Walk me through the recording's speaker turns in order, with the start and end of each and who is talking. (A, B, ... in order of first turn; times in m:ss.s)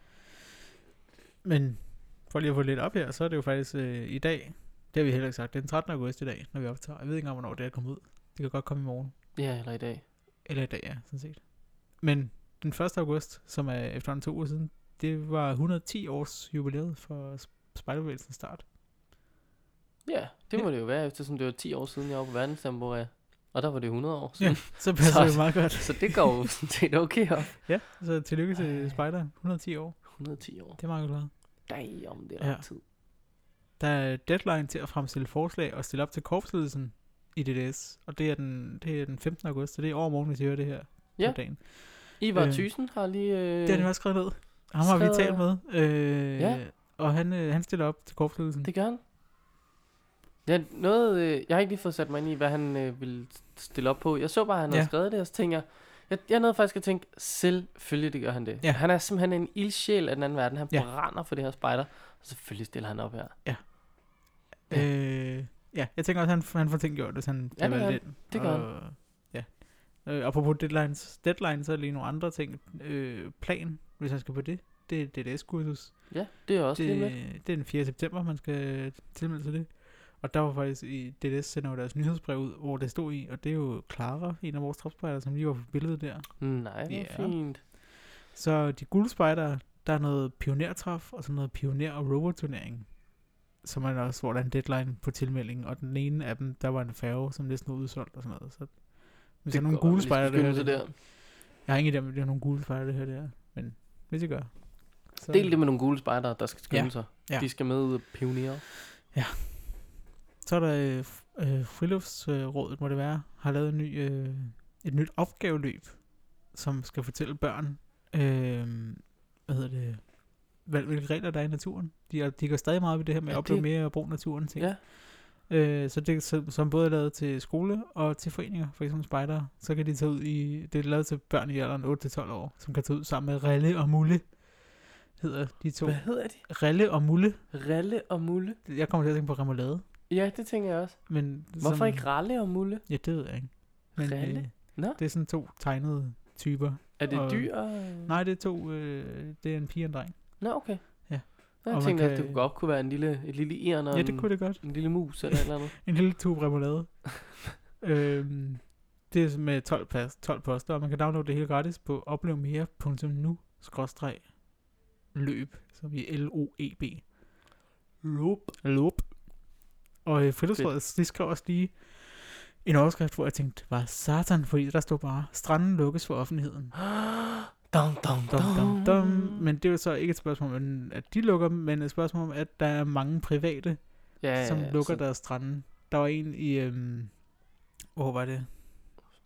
0:01.4-0:09.1 A
0:09.3-0:10.1 B
0:10.4-0:18.6 A
0:20.0-0:27.8 B
0:24.4-0:26.4 A
0:27.6-0:31.8 A
0:28.5-0:29.0 B
0:30.2-0:32.8 B
0:32.4-0:32.6 A
0:33.8-0:48.7 A
0:41.2-0:45.6 B
0:46.4-0:46.6 B
0:48.6-0:49.0 B
0:50.4-1:03.4 B
1:03.4-1:45.9 A
1:07.6-1:08.7 B
1:16.1-1:17.2 B
1:26.4-1:27.6 B
1:39.5-1:40.9 B
1:45.3-1:48.6 B
1:46.7-1:47.5 A
1:49.1-2:17.4 A
2:03.3-2:04.8 B
2:15.8-2:16.5 B
2:17.5-2:18.6 B
2:18.6-2:19.8 A
2:20.1-2:22.8 B
2:21.1-2:32.5 A
2:24.0-2:25.0 B
2:27.0-2:28.2 B
2:30.4-2:35.7 B
2:33.9-2:47.1 A
2:48.0-2:48.5 B
2:48.6-2:56.7 A
2:56.8-2:59.4 B
2:58.3-3:07.3 A
3:04.2-3:05.0 B
3:07.9-3:08.9 A